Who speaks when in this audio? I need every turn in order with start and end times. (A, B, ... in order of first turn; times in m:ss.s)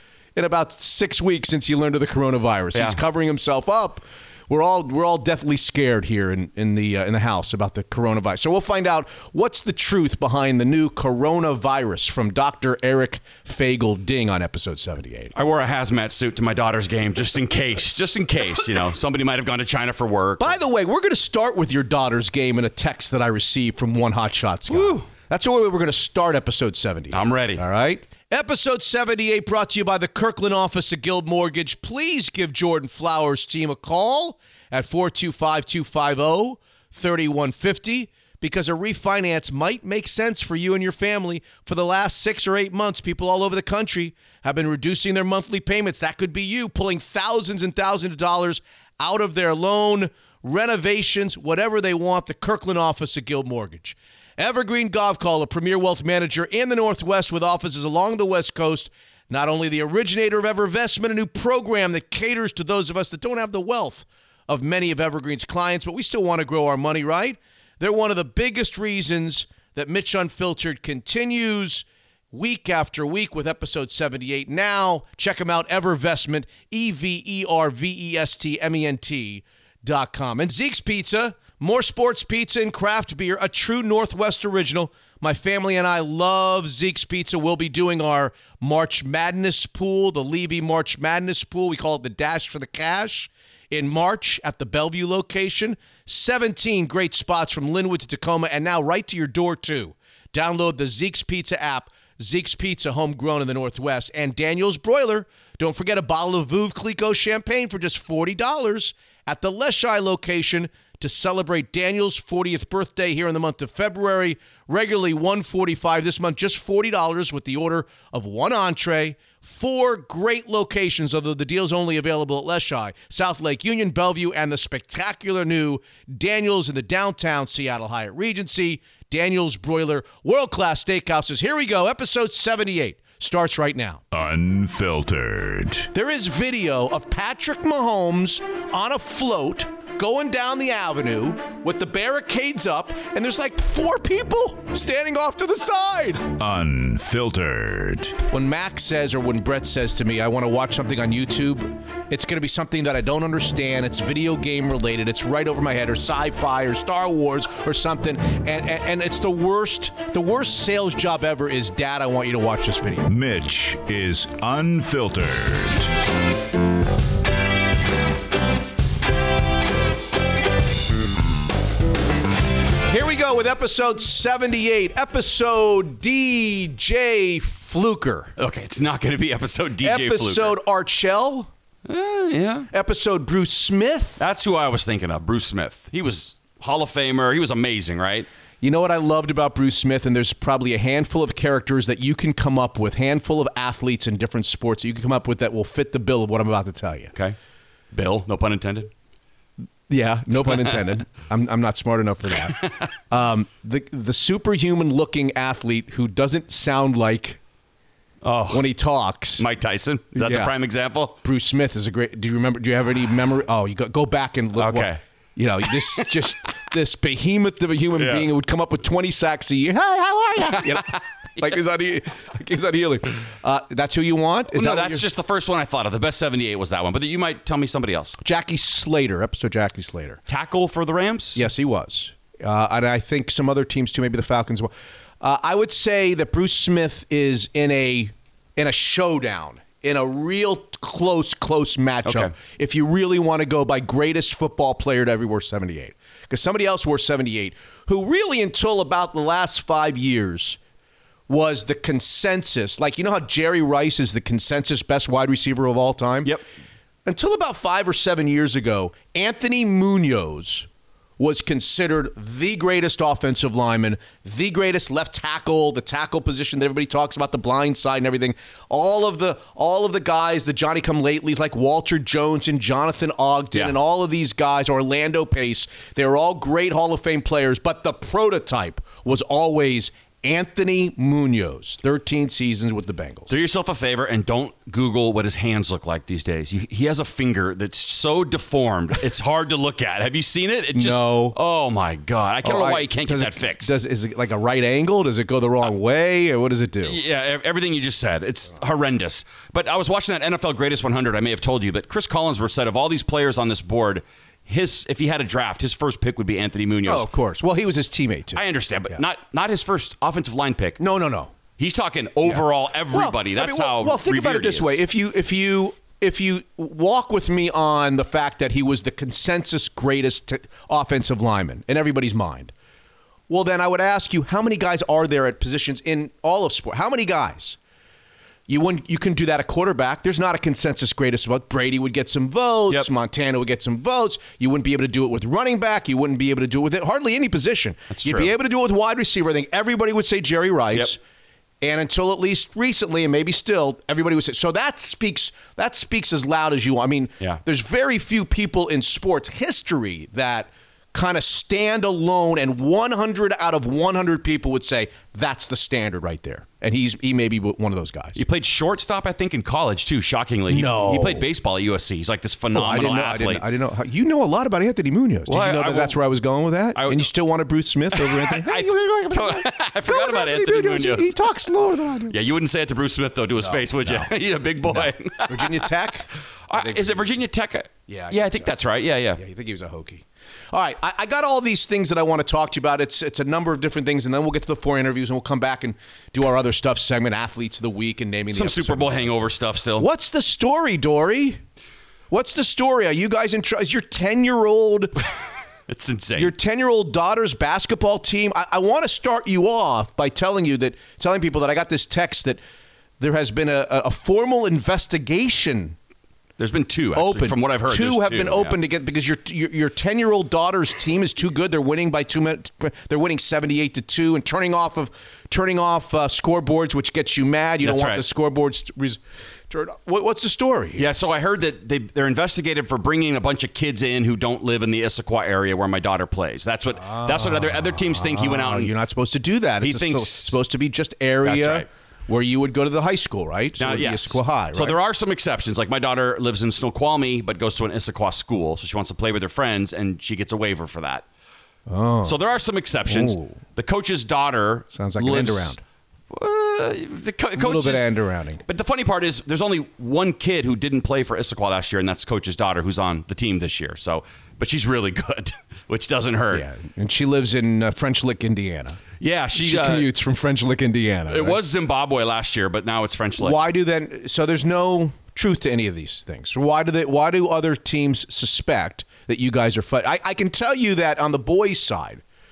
0:00.4-0:15.3 A
0:02.7-0:03.0 B
0:15.4-0:20.6 B
0:20.4-2:14.0 A
0:24.7-0:25.0 B
0:27.1-0:27.6 B
2:14.1-2:15.9 C
2:15.9-2:26.2 A
2:26.4-2:28.2 C
2:28.3-2:43.1 A
2:43.1-2:45.9 C
2:52.9-2:58.3 A
2:58.4-3:00.6 B
2:59.8-3:01.5 A
3:01.9-3:02.7 B
3:02.7-3:04.2 A
3:04.2-3:08.3 B
3:08.6-3:17.1 A
3:17.9-3:18.9 B
3:19.9-3:22.6 A
3:20.4-3:20.9 B
3:22.5-3:22.9 B
3:23.1-3:27.4 A
3:28.2-3:28.7 B
3:28.5-3:29.4 A
3:29.4-3:31.2 B
3:30.2-3:30.5 A
3:31.2-3:45.0 A
3:34.6-3:35.0 B
3:35.7-3:36.1 B
3:38.0-3:38.3 B
3:40.5-3:41.6 B
3:44.5-3:48.2 B
3:48.2-3:50.2 A
3:50.3-3:51.4 B
3:51.4-4:10.6 A
4:02.0-4:02.3 B
4:11.3-4:16.3 A
4:17.1-4:20.7 A
4:21.2-4:43.3 A
4:43.3-4:53.7 B
4:50.7-4:51.4 A
4:52.4-4:57.0 A
4:56.8-5:07.1 B
5:06.9-5:09.0 A
5:08.4-5:10.8 B
5:10.8-5:11.3 A
5:11.6-5:14.8 B
5:12.2-5:22.5 A
5:23.3-5:27.6 A
5:28.5-5:41.0 A
5:37.9-5:38.3 B
5:41.6-5:58.2 A
5:58.2-6:03.4 B
6:00.5-6:01.3 A
6:02.5-6:12.1 A
6:05.3-6:06.0 B
6:06.8-6:07.1 B
6:07.9-6:11.2 B
6:12.1-6:15.7 B
6:13.4-6:14.1 A
6:14.7-6:17.2 A
6:16.5-6:19.2 B
6:17.9-6:18.5 A
6:19.2-6:29.3 A
6:28.3-6:29.9 B
6:29.8-6:31.4 A
6:32.1-6:34.9 A
6:35.7-6:36.3 B
6:36.2-6:42.4 A
6:43.0-6:45.8 A
6:46.4-6:48.6 B
6:47.0-7:00.8 A
6:57.6-6:58.0 B
7:00.8-7:08.7 B
7:06.8-7:14.8 A
7:09.6-7:10.4 B
7:11.2-7:11.7 B
7:13.6-7:21.0 B
7:21.7-7:22.2 A
7:22.0-7:25.6 B
7:22.9-7:23.4 A
7:24.7-7:25.6 A
7:26.1-7:27.9 B
7:27.4-7:28.4 A
7:28.5-7:36.4 B
7:36.3-7:38.8 A
7:39.0-7:39.9 B
7:39.4-7:41.4 A
7:41.1-7:43.4 B
7:43.2-7:52.0 A